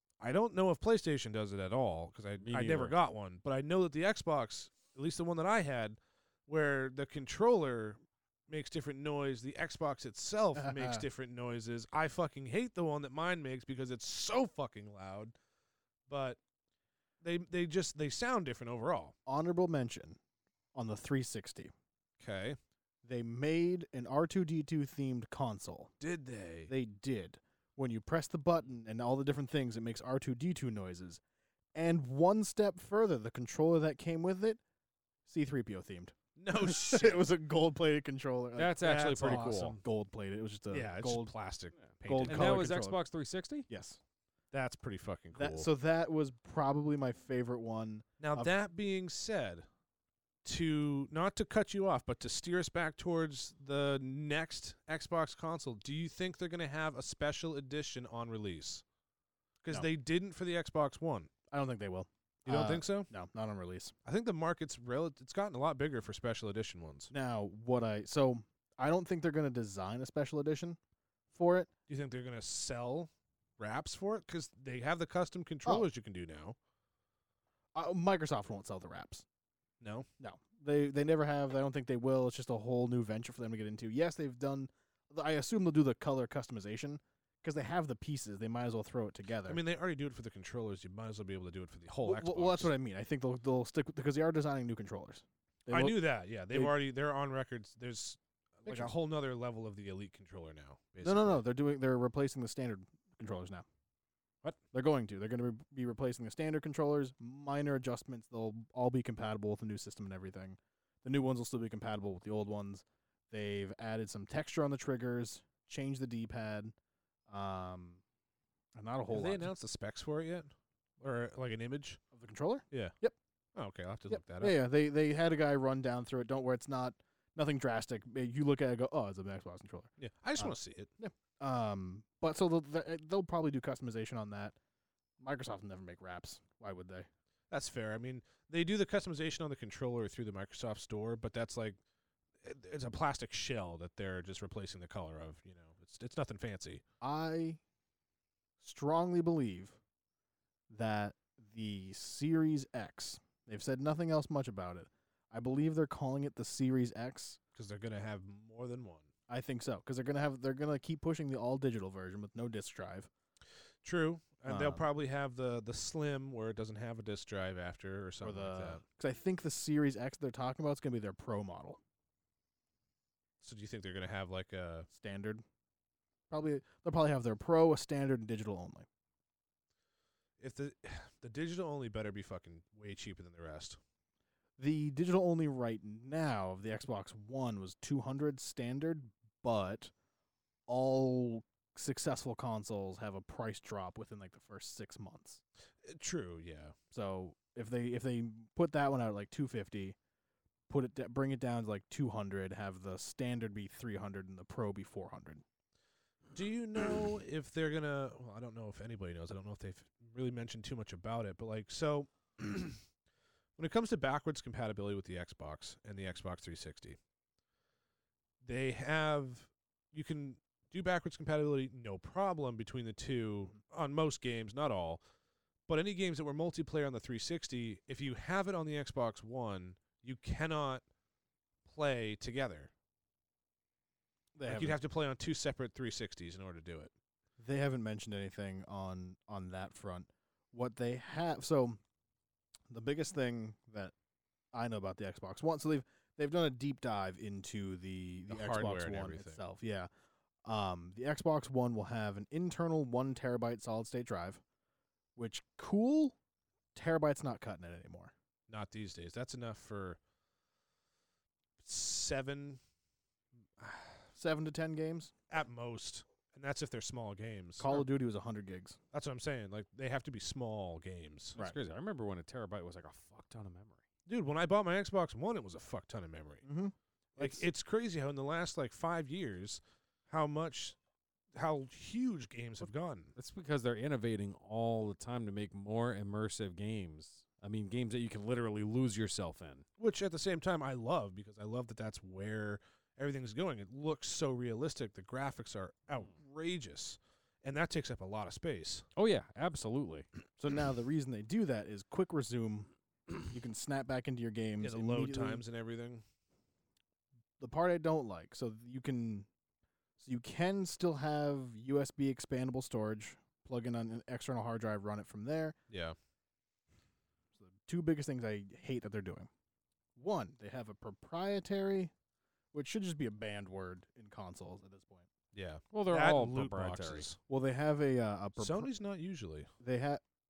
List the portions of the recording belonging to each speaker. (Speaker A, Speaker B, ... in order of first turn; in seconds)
Speaker A: 0.2-15.3, 16.1-16.4, 17.2-19.1, 22.2-22.6, 26.0-26.7, 36.4-37.3, 38.8-39.7, 40.7-42.6, 44.5-45.7, 48.2-49.6, 50.4-58.8, 59.6-61.3, 62.5-63.1, 64.0-67.1, 71.9-76.5, 79.8-80.1, 89.4-92.7, 95.7-101.4, 119.1-122.0, 123.5-124.6, 130.0-130.9, 137.5-141.8, 142.4-146.8, 157.5-159.1, 163.8-168.8, 173.4-174.9, 180.4-183.8, 195.8-196.8, 206.3-212.8, 213.6-217.0, 218.4-225.0, 225.7-230.8, 231.7-232.7, 234.4-236.9, 248.3-249.4, 258.5-260.0, 261.6-262.6, 263.6-264.0, 265.3-267.8, 268.9-271.4, 274.1-276.4, 277.2-280.8, 281.4-283.1, 289.8-298.8, 304.6-306.0, 315.7-315.9, 325.3-327.2, 328.4-329.5
Speaker B: 2.4-2.9, 38.5-39.8, 42.2-43.7, 271.4-273.8, 283.1-289.6, 298.9-300.1, 325.7-327.1
Speaker C: 10.5-11.0, 19.2-20.2, 20.7-21.7, 23.0-25.9, 26.7-31.2, 31.7-34.6, 35.2-41.3, 42.0-43.0, 43.7-44.0, 45.3-48.5, 61.5-63.9, 67.1-70.8, 71.3-71.7, 77.7-79.2, 80.2-89.6, 92.0-96.7, 98.7-98.9, 101.0-103.7, 104.7-116.7, 117.3-118.0, 118.7-119.5, 122.1-123.2, 124.1-134.6, 135.2-137.1, 147.0-147.6, 148.6-149.8, 150.7-157.4, 159.3-163.1, 164.4-164.8, 168.2-171.8, 174.9-175.4, 176.3-178.9, 184.6-189.9, 190.7-195.4, 196.9-199.9, 200.7-205.4, 234.3-234.8, 237.4-241.8, 242.7-243.9, 244.5-249.9, 250.4-254.4, 255.2-256.1, 256.7-258.1, 264.1-265.1, 267.6-268.8, 276.4-277.5, 300.4-305.4, 307.4-309.3, 310.0-315.6, 317.3-319.3, 320.0-321.9, 322.5-325.1, 327.3-328.7, 329.6-330.0